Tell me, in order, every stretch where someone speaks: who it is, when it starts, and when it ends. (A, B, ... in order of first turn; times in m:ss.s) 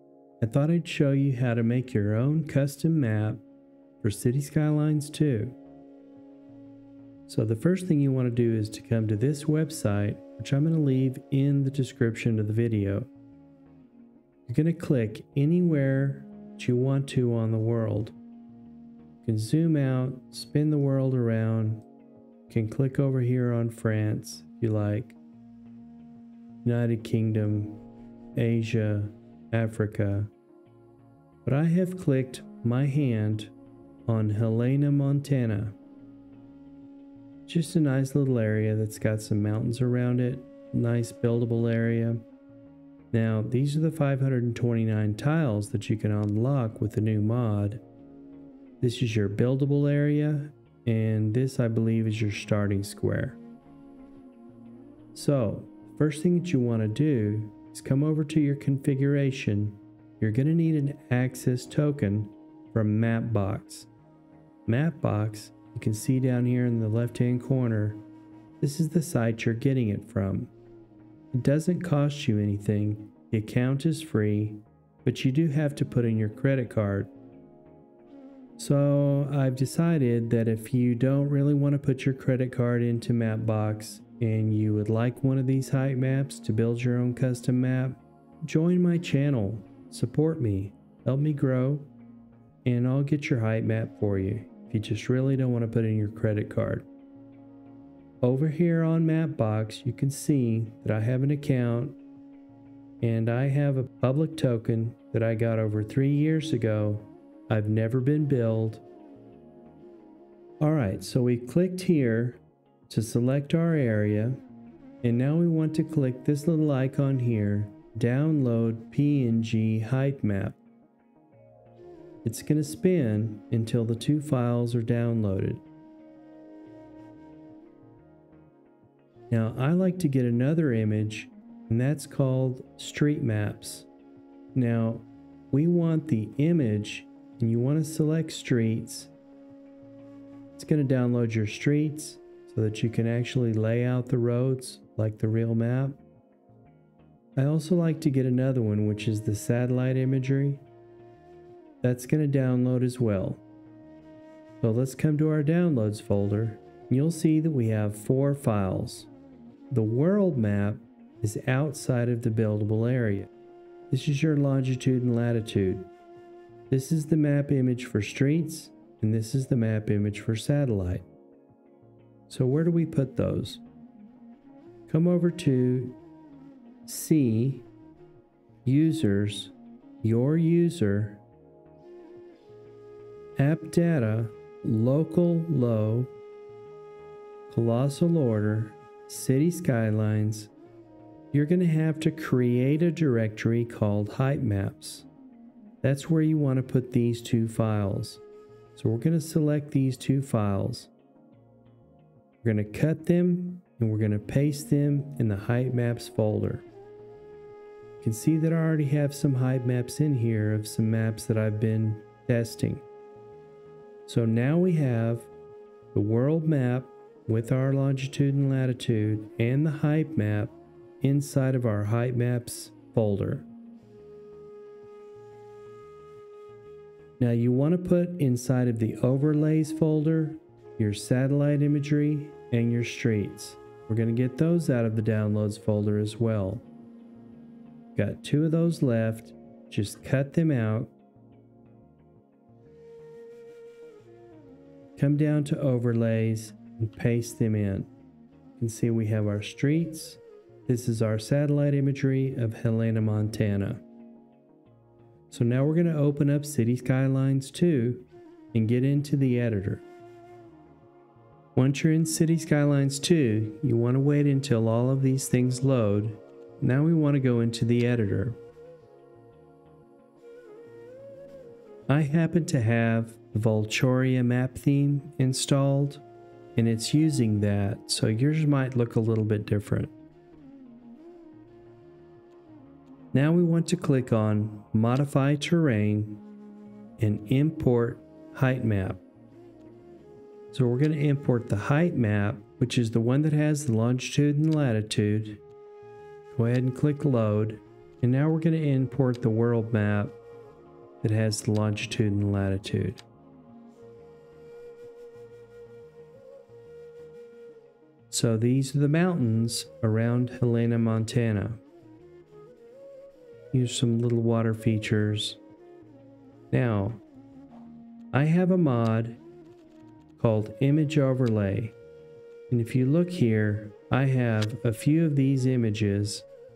0:00.4-0:03.4 A
0:04.0-0:05.6 A
0:07.3-0:13.1 A
0:14.5-0:18.2 A
0:19.2-0:21.9 A
0:22.5-0:25.2 A
0:26.6-0:27.8 A
0:28.4-0:30.3 A
0:31.4-0:33.5 A
0:34.1-0:35.8 A
0:37.5-0:42.3 A
0:43.1-0:47.8 A
0:48.8-0:53.4 A
0:55.1-1:03.9 A
1:04.7-1:08.0 A
1:08.6-1:10.5 A
1:11.3-1:17.1 A
1:18.6-1:31.9 A
1:32.6-1:36.9 A
1:38.2-1:42.0 A
1:43.0-1:48.8 A
1:50.6-1:54.4 A
1:55.0-2:00.6 A
2:02.2-2:05.6 A
2:09.3-2:13.9 A
2:14.5-2:19.1 A
2:20.6-2:26.0 A
2:27.4-2:30.6 A
2:31.8-2:33.4 A
2:34.6-2:39.1 A
2:39.7-2:43.3 A
2:43.9-2:45.9 A
2:46.7-2:51.1 A
2:52.3-2:53.6 A
2:54.9-2:56.0 A
2:56.9-2:57.7 A
2:58.6-3:01.2 A
3:03.4-3:06.1 A
3:07.5-3:10.5 A
3:11.3-3:15.1 A
3:15.8-3:18.2 A
3:18.8-3:20.9 A
3:22.4-3:26.7 A
3:28.0-3:32.9 A
3:34.1-3:35.3 A
3:35.9-3:43.5 A
3:47.2-3:56.7 A
3:58.0-4:00.9 A
4:05.0-4:07.9 A
4:08.6-4:13.8 A
4:15.3-4:19.9 A
4:21.6-4:28.4 A
4:31.9-4:36.0 A
4:36.6-4:39.9 A
4:43.1-4:46.2 A
4:47.0-4:49.0 A
4:50.5-4:55.4 A
4:56.3-5:00.2 A
5:01.0-5:03.0 A
5:08.1-5:11.6 A
5:13.5-5:15.4 A
5:16.5-5:17.0 A
5:18.1-5:19.2 A
5:20.2-5:21.8 A
5:22.5-5:26.3 A